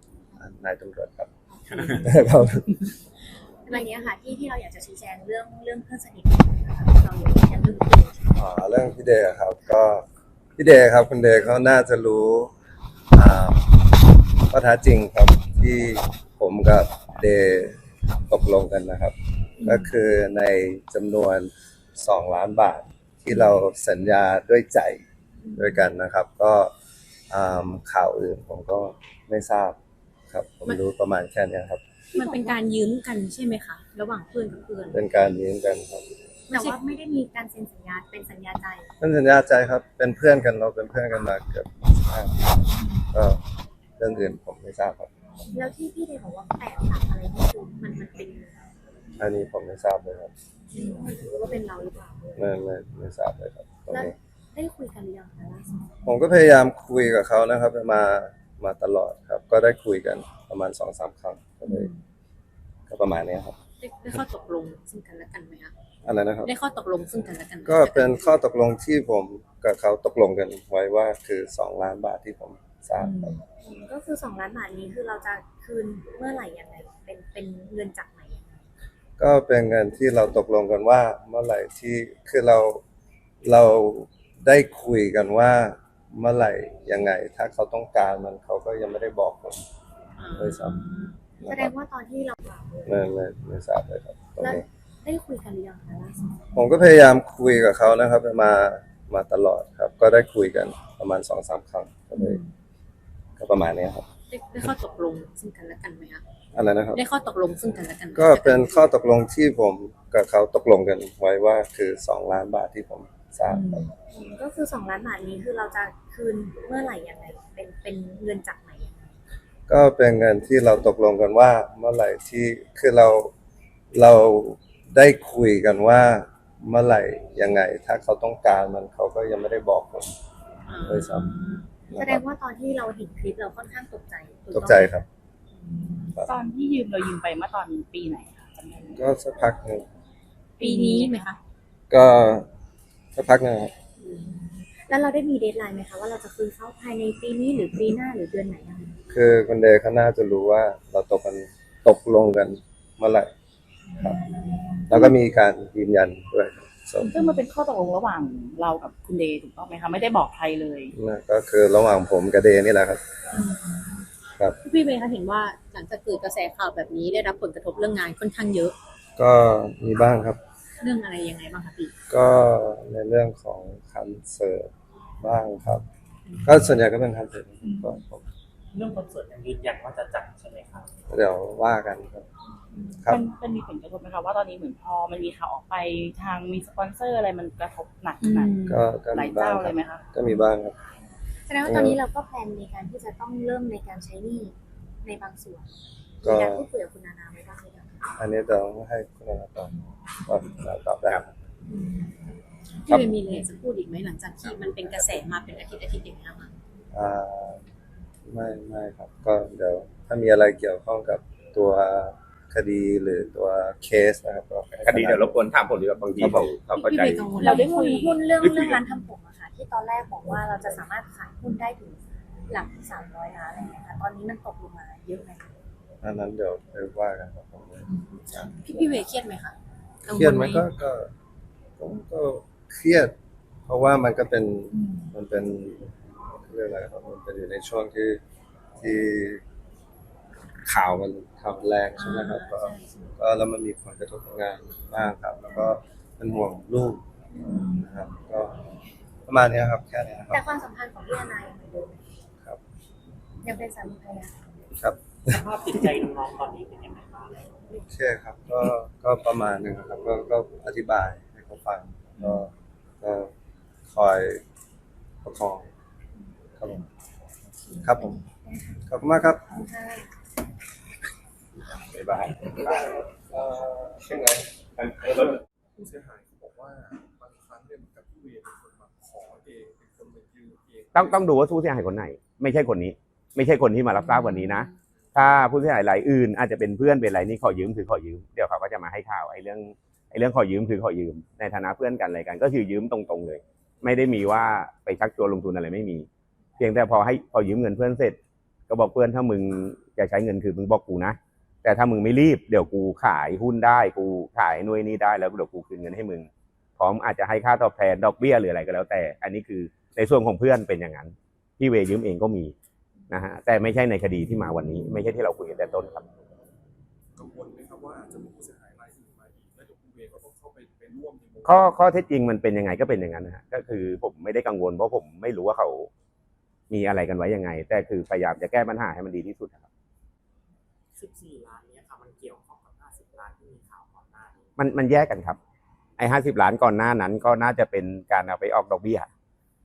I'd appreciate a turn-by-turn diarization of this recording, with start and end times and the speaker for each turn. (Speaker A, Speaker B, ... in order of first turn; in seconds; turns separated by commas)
Speaker A: 0.4-2.9, Speaker B: 1.5-2.1, Speaker B: 3.6-8.3, Speaker A: 8.3-10.1, Speaker A: 10.6-12.5, Speaker A: 13.1-13.6, Speaker A: 14.5-25.0, Speaker A: 25.5-26.7, Speaker A: 27.3-29.8, Speaker A: 30.3-31.8, Speaker C: 32.1-35.0, Speaker A: 34.9-36.1, Speaker B: 36.5-38.9, Speaker C: 36.5-36.8, Speaker A: 39.0-43.4, Speaker A: 44.0-45.1, Speaker B: 45.5-48.5, Speaker A: 49.2-50.3, Speaker B: 50.7-52.4, Speaker A: 52.4-54.1, Speaker B: 53.9-55.9, Speaker A: 56.0-61.9, Speaker A: 62.9-63.6, Speaker C: 63.8-65.7, Speaker A: 66.0-66.5, Speaker C: 66.4-68.4, Speaker A: 67.6-73.4, Speaker B: 73.6-78.7, Speaker A: 79.2-82.8, Speaker A: 83.4-89.6, Speaker C: 90.2-91.2, Speaker A: 90.3-90.8, Speaker A: 91.4-91.7, Speaker B: 91.5-93.1, Speaker A: 92.8-94.6, Speaker B: 94.4-96.5, Speaker A: 96.5-102.4, Speaker A: 103.4-104.0, Speaker C: 104.3-106.2, Speaker A: 106.5-107.0, Speaker C: 106.9-108.9, Speaker A: 108.1-113.9, Speaker D: 113.5-113.9, Speaker B: 114.1-119.2, Speaker A: 119.7-123.3, Speaker A: 123.9-130.1, Speaker C: 130.7-131.7, Speaker A: 130.8-131.4, Speaker A: 131.9-132.2, Speaker B: 131.9-135.0, Speaker A: 134.5-135.0, Speaker D: 136.1-139.0, Speaker A: 138.9-139.8, Speaker D: 140.6-141.3, Speaker C: 140.6-141.4, Speaker A: 141.9-142.5, Speaker A: 143.1-143.7, Speaker B: 144.0-149.0, Speaker A: 149.1-153.3, Speaker A: 154.9-157.1, Speaker D: 157.0-160.9, Speaker A: 160.9-163.0, Speaker C: 164.6-168.8, Speaker A: 169.2-170.4, Speaker C: 170.8-171.9, Speaker A: 172.1-175.8, Speaker A: 176.4-178.3, Speaker E: 178.7-180.9, Speaker A: 181.1-182.3, Speaker A: 182.9-183.2, Speaker D: 183.1-190.0, Speaker C: 188.3-188.8, Speaker A: 188.6-190.8, Speaker B: 191.4-198.1, Speaker A: 191.6-192.0, Speaker A: 196.2-196.7, Speaker A: 198.2-201.3, Speaker C: 201.7-202.2, Speaker C: 202.8-206.5, Speaker A: 206.9-207.6, Speaker A: 208.2-215.3, Speaker F: 214.8-217.3, Speaker A: 216.2-216.5, Speaker C: 216.7-217.7, Speaker D: 217.4-218.2, Speaker B: 217.4-225.5, Speaker A: 226.0-229.0, Speaker C: 227.9-230.7, Speaker A: 230.1-231.1, Speaker A: 231.8-233.1, Speaker A: 233.7-238.2, Speaker C: 234.7-235.1, Speaker A: 238.8-239.4, Speaker A: 240.7-247.0, Speaker C: 242.0-243.1, Speaker A: 247.7-248.6, Speaker A: 249.3-250.4, Speaker B: 250.3-252.0, Speaker B: 253.4-254.3, Speaker A: 254.8-255.4, Speaker E: 255.3-257.4, Speaker A: 257.8-262.5, Speaker A: 263.0-263.3, Speaker A: 263.9-264.4, Speaker A: 265.2-265.7, Speaker A: 266.6-266.8, Speaker B: 267.7-268.8, Speaker A: 267.8-268.2, Speaker A: 268.8-269.4, Speaker B: 269.5-270.1, Speaker F: 271.9-272.9, Speaker A: 272.6-274.5, Speaker G: 275.8-281.3, Speaker F: 280.9-296.1, Speaker G: 285.1-285.4, Speaker F: 296.6-298.2, Speaker F: 298.7-312.5, Speaker F: 313.1-316.0, Speaker G: 317.1-321.8, Speaker F: 321.4-325.9, Speaker F: 326.7-329.7, Speaker E: 330.9-334.5, Speaker F: 334.6-335.4, Speaker F: 336.0-339.1